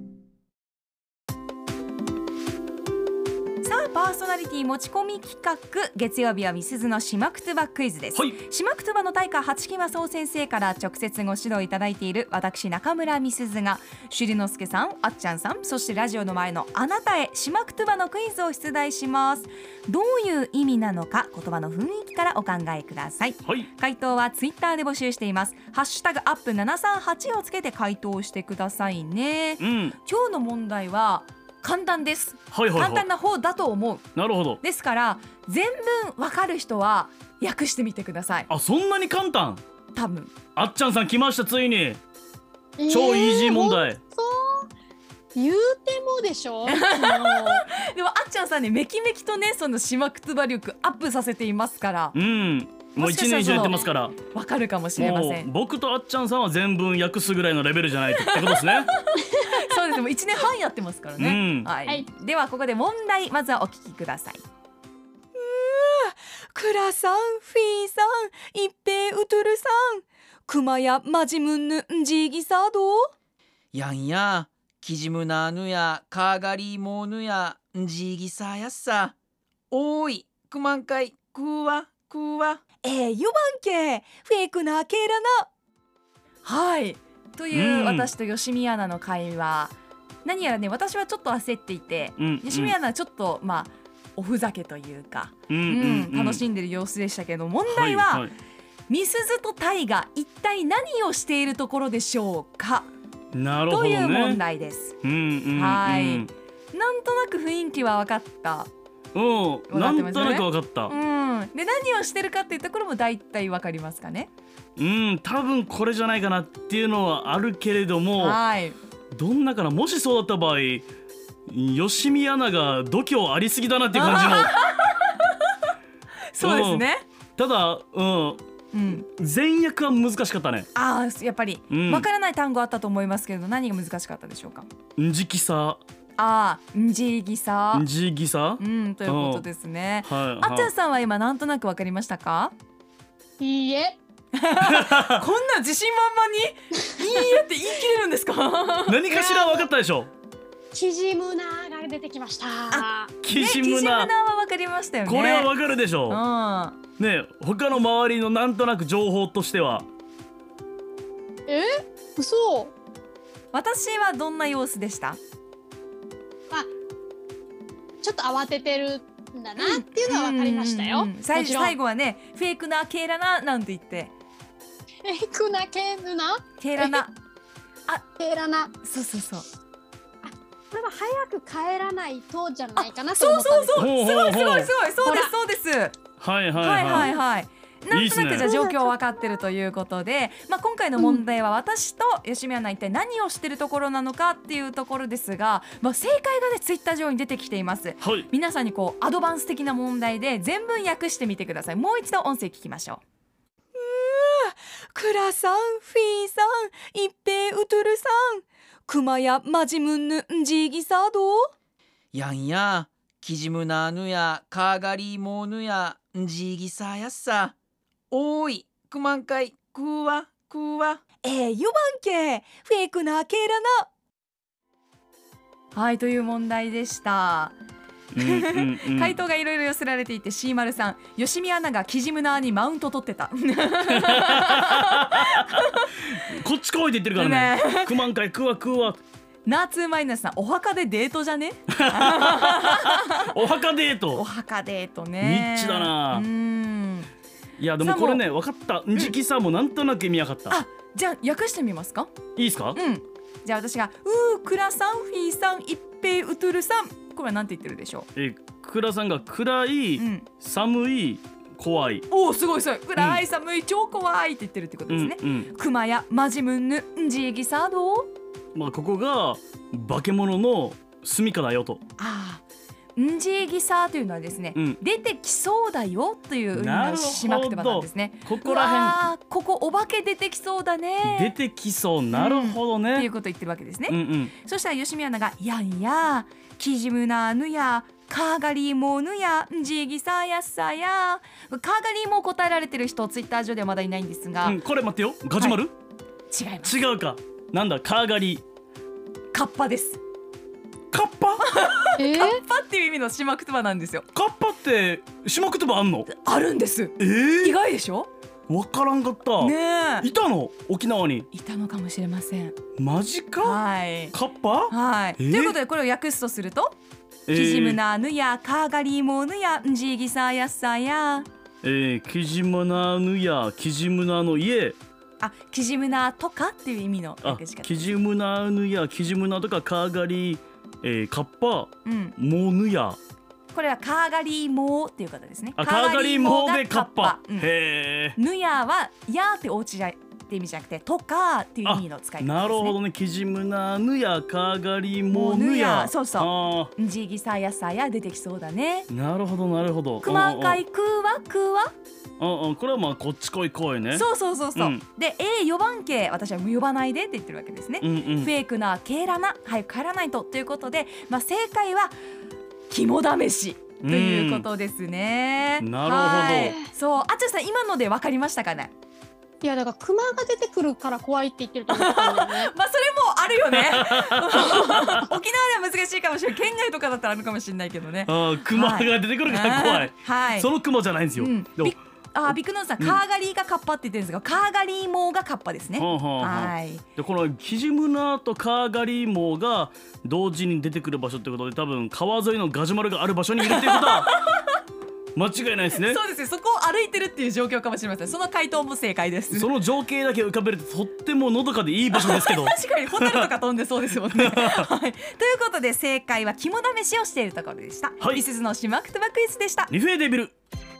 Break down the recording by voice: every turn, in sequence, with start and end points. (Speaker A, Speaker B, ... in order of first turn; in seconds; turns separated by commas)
Speaker A: 3.6-34.1, Speaker B: 32.5-33.0, Speaker B: 34.1-34.6, Speaker A: 34.6-38.5, Speaker B: 38.5-39.6, Speaker A: 39.9-40.3, Speaker B: 40.5-42.0, Speaker C: 42.8-44.7, Speaker B: 42.9-44.0, Speaker C: 45.3-47.6, Speaker A: 46.7-52.1, Speaker B: 52.1-54.1, Speaker A: 52.9-55.5, Speaker C: 53.5-53.9, Speaker B: 55.0-58.8, Speaker A: 58.0-64.4, Speaker C: 59.4-59.8, Speaker B: 61.2-61.5, Speaker A: 65.3-73.1, Speaker D: 73.7-79.1, Speaker D: 79.7-82.6, Speaker A: 82.8-85.5, Speaker A: 86.4-98.3, Speaker B: 87.5-88.1, Speaker B: 92.2-92.7, Speaker B: 95.5-96.3, Speaker B: 97.8-98.2, Speaker A: 98.9-102.9, Speaker B: 103.3-104.3, Speaker A: 103.7-105.0, Speaker B: 105.0-106.3, Speaker A: 105.5-108.7, Speaker B: 109.1-110.9, Speaker A: 109.7-114.3, Speaker B: 114.8-118.2, Speaker A: 118.2-118.8, Speaker B: 119.1-120.8, Speaker B: 121.5-124.5, Speaker A: 123.9-125.5, Speaker A: 126.3-127.0, Speaker B: 126.4-126.8, Speaker B: 127.4-128.4, Speaker A: 128.7-129.1, Speaker B: 129.2-130.7, Speaker A: 130.7-134.7, Speaker B: 135.0-135.8, Speaker A: 136.2-137.9, Speaker B: 137.8-139.4, Speaker A: 138.6-142.5, Speaker B: 140.1-140.7, Speaker C: 143.4-144.0, Speaker A: 144.3-149.0, Speaker B: 148.9-150.1, Speaker C: 149.0-149.7, Speaker C: 150.7-153.1, Speaker A: 152.7-155.6, Speaker B: 153.2-153.9, Speaker B: 155.1-156.2, Speaker A: 156.1-156.8, Speaker B: 157.0-159.9, Speaker C: 161.5-162.7, Speaker A: 163.5-165.2, Speaker C: 168.0-171.8, Speaker A: 169.6-174.1, Speaker C: 175.0-177.0, Speaker A: 176.6-177.1, Speaker C: 178.2-178.7, Speaker A: 178.8-179.4, Speaker C: 180.2-184.4, Speaker A: 182.7-186.0, Speaker B: 183.8-184.7, Speaker C: 185.0-185.3, Speaker B: 186.2-187.1, Speaker A: 186.6-203.0, Speaker C: 186.8-187.1, Speaker B: 187.9-188.4, Speaker C: 188.3-189.4, Speaker C: 191.0-191.2, Speaker A: 203.8-211.5, Speaker D: 212.1-217.5, Speaker D: 218.1-221.0, Speaker A: 221.2-223.9, Speaker A: 225.7-227.6, Speaker B: 228.1-229.1, Speaker A: 228.2-236.1, Speaker B: 236.4-239.0, Speaker A: 237.1-238.0, Speaker A: 239.4-243.3, Speaker B: 243.3-244.2, Speaker A: 244.1-247.1, Speaker B: 245.2-246.2, Speaker B: 247.6-250.6, Speaker A: 247.8-248.2, Speaker A: 250.5-252.1, Speaker B: 252.3-252.8, Speaker A: 252.7-258.1, Speaker B: 258.1-262.0, Speaker A: 259.9-260.3, Speaker A: 262.1-268.1, Speaker B: 264.9-265.5, Speaker B: 268.5-271.8, Speaker A: 272.0-272.4, Speaker A: 272.9-281.4, Speaker B: 276.6-279.0, Speaker B: 281.1-283.1, Speaker A: 282.1-294.6, Speaker B: 283.9-284.3, Speaker B: 294.5-295.7, Speaker A: 295.4-295.6, Speaker A: 296.3-296.8, Speaker B: 296.6-298.4, Speaker A: 299.3-300.0, Speaker B: 300.9-301.4, Speaker A: 301.4-304.0, Speaker C: 302.0-302.4, Speaker B: 304.1-306.1, Speaker A: 306.1-308.1, Speaker B: 307.0-307.5, Speaker B: 308.5-309.5, Speaker A: 309.4-310.1, Speaker B: 310.0-311.3, Speaker A: 311.3-312.5, Speaker B: 312.8-313.6, Speaker A: 313.4-314.1, Speaker B: 314.1-315.5, Speaker A: 314.7-316.8, Speaker A: 317.3-321.3, Speaker B: 317.3-317.8, Speaker B: 321.6-324.8, Speaker A: 325.2-328.0, Speaker B: 327.2-333.0, Speaker A: 331.8-332.1, Speaker A: 333.5-337.5, Speaker B: 335.6-338.1, Speaker A: 338.1-342.8, Speaker B: 341.7-346.7, Speaker A: 345.1-348.9, Speaker B: 348.9-350.6, Speaker A: 350.0-351.7, Speaker B: 352.2-354.0, Speaker A: 353.9-361.9, Speaker B: 357.8-358.3, Speaker A: 362.7-368.7, Speaker B: 363.8-364.4, Speaker B: 365.6-366.5, Speaker C: 366.0-366.7, Speaker C: 369.4-372.5, Speaker A: 371.7-380.5, Speaker B: 378.1-381.7, Speaker A: 381.2-386.8, Speaker B: 385.8-394.1, Speaker A: 393.4-394.6, Speaker B: 395.1-396.0, Speaker A: 395.7-399.5, Speaker B: 399.3-403.2, Speaker A: 401.9-409.7, Speaker B: 409.7-410.3